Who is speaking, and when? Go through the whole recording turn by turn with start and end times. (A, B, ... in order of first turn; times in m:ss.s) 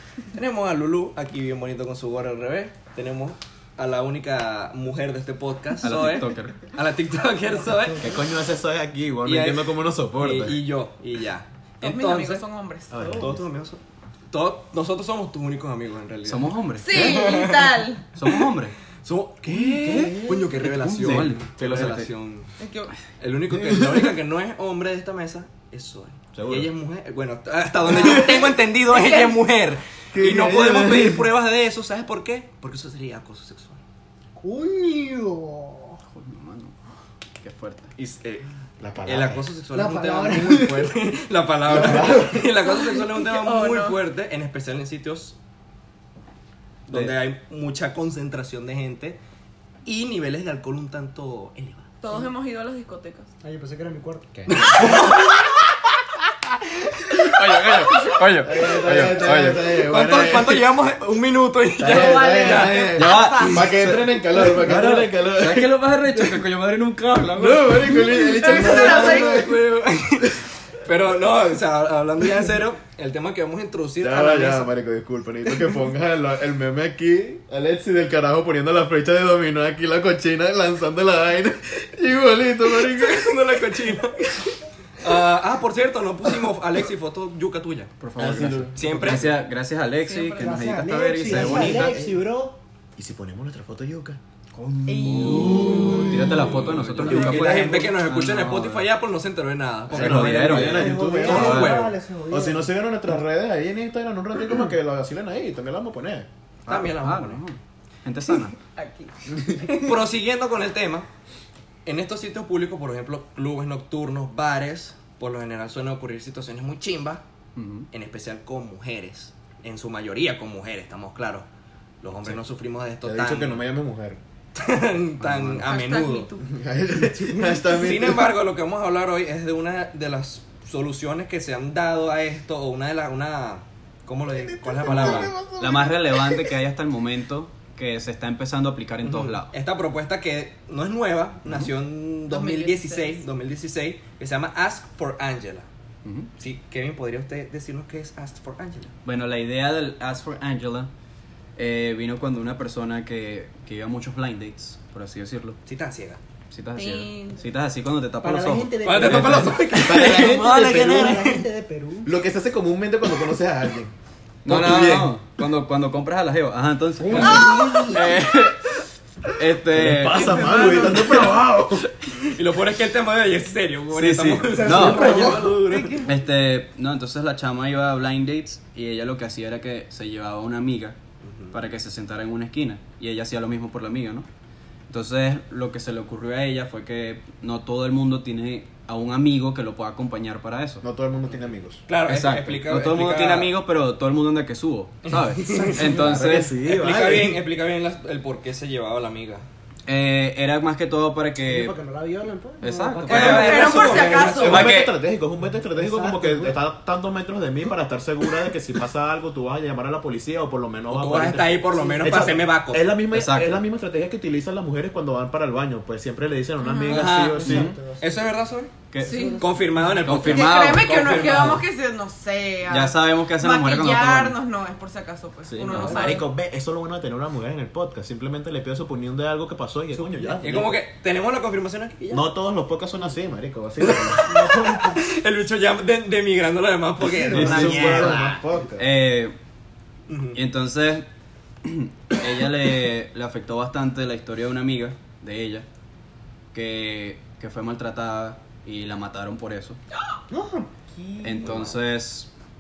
0:00.3-0:08.1 A
0:05.8-0:06.6 B
0:08.0-0:10.6 C
0:09.2-0:12.4 A
0:11.8-0:13.3 D
0:12.9-0:13.4 C
0:13.0-0:18.5 A
0:16.2-0:17.2 B
0:16.8-0:18.1 D
0:18.2-0:18.8 B
0:19.0-0:22.5 A
0:19.5-0:22.1 B
0:19.5-0:20.5 C
0:21.0-0:22.0 C
0:22.6-0:22.9 D
0:23.2-0:33.8 A
0:23.7-0:24.0 C
0:26.3-0:26.7 C
0:28.0-0:28.3 D
0:28.9-0:29.4 D
0:30.1-0:31.3 C
0:34.4-0:36.0 E
0:36.1-0:36.8 B
0:37.4-0:37.9 B
0:38.0-0:38.4 A
0:38.8-0:39.4 C
0:39.0-0:45.4 A
0:39.7-0:40.9 E
0:41.7-0:42.5 C
0:42.7-0:44.0 D
0:46.9-0:49.2 A
0:46.9-0:47.2 B
0:49.8-0:51.9 A
0:52.0-0:53.3 D
0:53.4-0:54.8 E
0:54.4-0:55.1 C
0:54.6-0:54.9 A
0:57.2-0:59.6 B
0:58.4-1:00.7 C
0:59.8-1:03.4 A
1:01.8-1:06.4 C
1:01.8-1:03.7 D
1:02.9-1:07.9 B
1:07.3-1:09.6 C
1:07.9-1:09.6 D
1:08.5-1:14.7 A
1:14.0-1:23.4 C
1:22.6-1:27.9 A
1:28.0-1:32.0 B
1:28.2-1:29.3 C
1:28.7-1:29.4 A
1:30.0-1:30.6 D
1:30.4-1:32.6 E
1:31.2-1:32.2 C
1:33.0-1:34.2 C
1:34.5-1:38.9 B
1:34.9-1:36.0 D
1:35.2-1:37.9 C
1:36.6-1:41.9 A
1:39.9-1:41.8 B
1:39.9-1:47.0 C
1:40.6-1:42.7 E
1:46.7-1:47.4 A
1:46.9-1:48.6 B
1:48.6-1:50.0 D
1:49.6-1:51.1 A
1:51.9-1:57.2 A
1:57.6-1:57.9 B
1:57.9-2:01.5 A
2:02.0-2:03.6 A
2:03.0-2:04.2 C
2:04.6-2:06.3 A
2:05.2-2:05.6 B
2:05.6-2:06.6 D
2:06.5-2:08.3 C
2:07.2-2:07.5 E
2:07.7-2:15.4 A
2:14.3-2:16.6 C
2:14.8-2:19.5 B
2:19.0-2:25.7 A
2:22.3-2:23.2 D
2:26.4-2:29.0 A
2:29.0-2:30.9 B
2:31.6-2:35.6 B
2:35.7-2:36.2 A
2:36.5-2:40.3 B
2:36.8-2:37.4 D
2:38.2-2:39.7 E
2:38.8-2:41.4 A
2:39.8-2:41.2 C
2:40.4-2:42.2 E
2:42.0-2:43.9 C
2:44.4-2:45.2 C
2:44.4-2:48.7 B
2:47.0-2:48.0 E
2:47.1-2:47.4 C
2:47.2-2:48.0 D
2:49.3-2:50.5 B
2:49.6-2:51.9 C
2:50.1-2:51.4 D
2:52.3-2:56.1 A
2:53.9-2:55.4 B
2:54.4-2:55.8 E
2:54.9-2:55.4 C
2:55.0-2:56.1 D
2:56.0-3:01.0 B
3:01.2-3:01.6 A
3:01.5-3:04.3 B
3:04.9-3:10.8 B
3:10.8-3:11.8 C
3:11.9-3:13.5 A
3:12.1-3:16.6 B
3:15.0-3:15.8 A
3:15.4-3:16.2 E
3:15.8-3:17.4 C
3:16.6-3:19.5 A
3:19.9-3:21.8 B
3:21.4-3:24.2 E
3:22.6-3:25.0 B
3:23.1-3:24.7 D
3:23.1-3:24.8 A
3:24.3-3:37.8 C
3:25.7-3:26.6 E
3:30.9-3:32.9 A
3:31.7-3:32.3 E
3:33.1-3:33.6 B
3:36.6-3:37.1 D
3:36.9-3:38.7 A
3:37.4-3:38.4 E
3:37.4-3:37.8 B
3:38.9-3:39.4 B
3:39.0-3:39.5 D
3:39.0-3:40.0 E
3:39.4-3:41.6 A
3:40.0-3:41.6 B
3:40.1-3:46.3 D
3:42.7-3:44.4 B
3:45.5-3:50.8 C
3:45.7-3:46.2 E
3:45.7-3:46.1 B
3:49.9-3:50.5 E
3:50.4-3:52.3 A
3:52.1-3:54.3 C
3:53.8-3:58.4 A
3:54.2-3:55.1 E
3:57.2-3:57.6 E
3:57.3-3:58.9 C
3:57.3-3:58.2 B
3:58.8-3:59.4 B
4:00.1-4:00.4 A
4:00.4-4:01.1 B
4:01.6-4:05.7 B
4:06.5-4:09.8 B
4:10.3-4:11.8 E
4:11.2-4:12.3 B